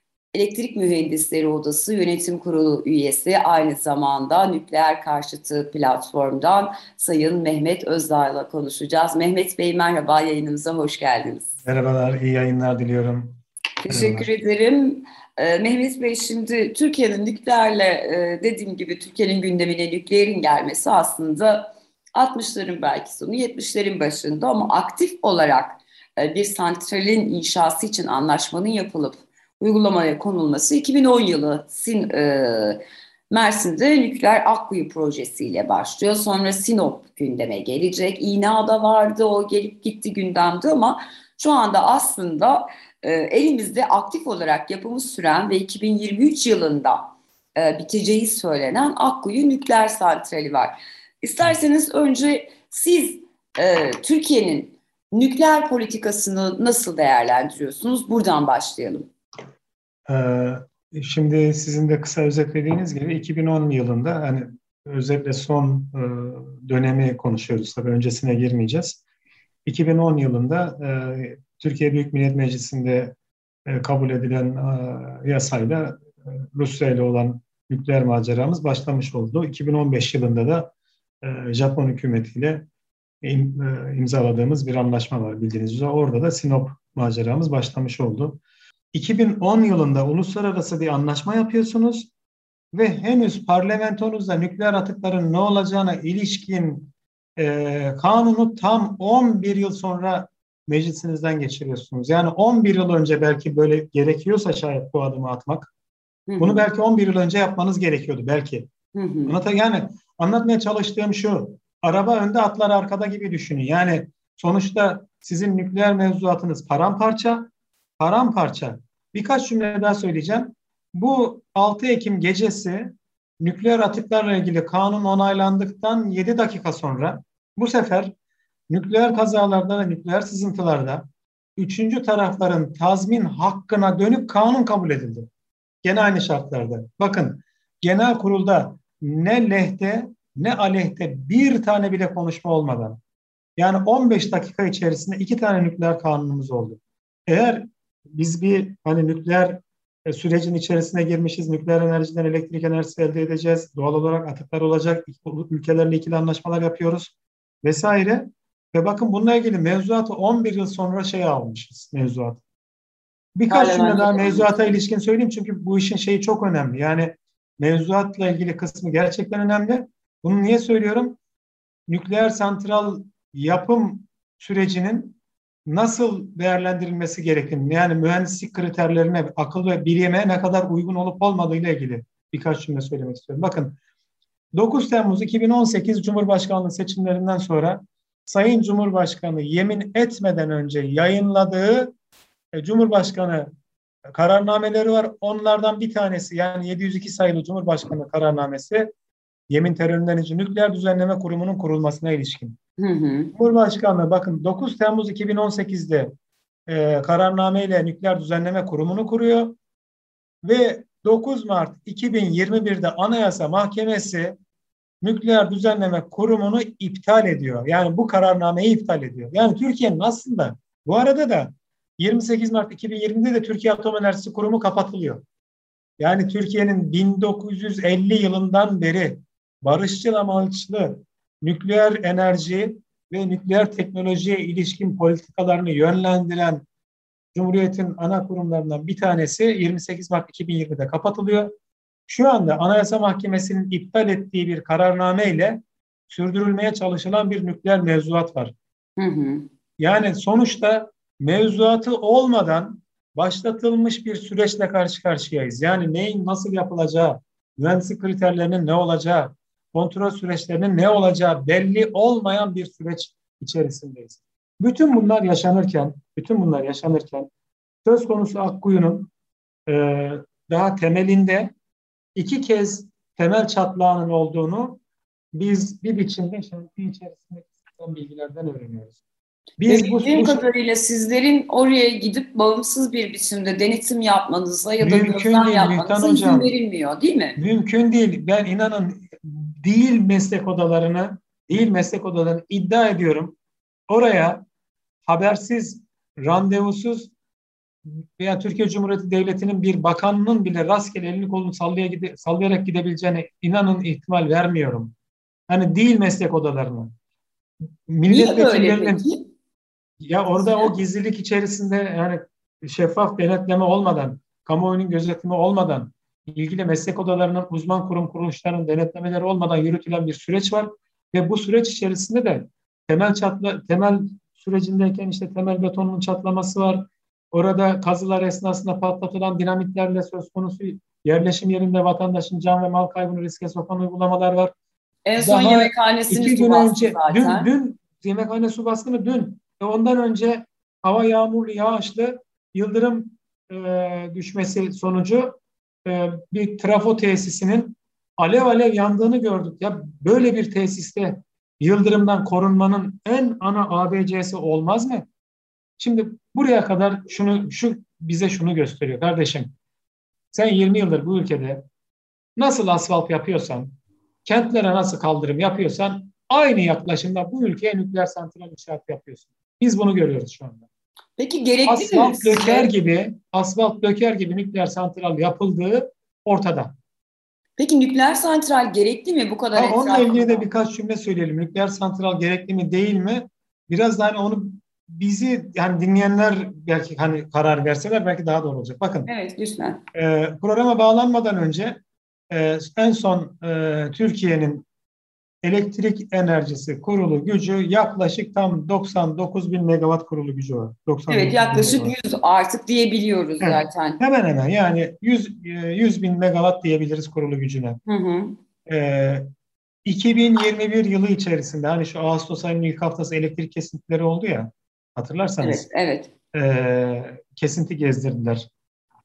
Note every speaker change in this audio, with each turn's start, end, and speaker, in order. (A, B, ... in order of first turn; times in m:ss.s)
0:00.3-0:11.5 A
0:11.6-0:13.4 B
0:13.8-0:59.1 A
0:13.9-0:14.3 B
1:00.1-1:09.0 B
1:09.6-1:13.1 B
1:13.6-1:22.6 B
1:23.2-1:28.4 B
1:28.9-1:32.1 B
1:32.7-1:45.7 B
1:46.3-1:46.6 A
1:46.4-1:48.7 B
1:48.9-1:49.4 A
1:49.2-2:08.1 B
2:08.7-2:11.0 B
2:11.6-2:15.3 B
2:15.8-2:23.0 B
2:23.6-2:42.4 B
2:43.4-2:51.2 B
2:43.5-2:44.7 A
2:51.9-3:03.8 B
3:04.5-3:11.9 B
3:12.5-3:13.5 B
3:14.1-3:18.9 B
3:19.5-3:22.6 B
3:22.8-3:23.3 A
3:23.3-3:26.1 B
3:26.7-3:29.6 B
3:30.4-3:34.4 B
3:35.0-3:45.2 B
3:46.0-3:56.6 B
3:57.3-4:01.5 B
4:02.1-4:08.5 B
4:09.0-4:09.5 A
4:09.8-4:27.3 B
4:27.8-4:29.1 B
4:29.7-4:31.5 B
4:32.2-4:34.8 B
4:35.3-4:39.0 B
4:39.6-4:40.4 B
4:39.7-4:47.4 A
4:44.8-4:46.5 B
4:47.4-4:53.4 B
4:53.9-4:54.4 B
4:55.0-4:57.1 B
4:57.8-5:04.9 B
5:05.5-5:06.9 B
5:07.9-5:09.0 B
5:08.1-5:09.2 A
5:10.0-5:34.5 B
5:35.0-5:37.5 A
5:35.2-5:55.0 B
5:55.8-5:59.5 B
6:00.3-6:01.6 B
6:02.4-6:10.6 B
6:11.2-6:12.7 A
6:11.6-6:16.7 B
6:17.6-6:20.4 A
6:19.5-6:29.1 B
6:29.1-6:29.8 A
6:29.9-6:34.6 B
6:35.4-6:41.9 B
6:41.1-6:44.0 A
6:43.4-6:47.8 B
6:47.9-6:48.4 A
6:48.6-6:49.2 B
6:49.8-6:55.6 B
6:55.4-6:56.1 A
6:56.3-6:58.5 B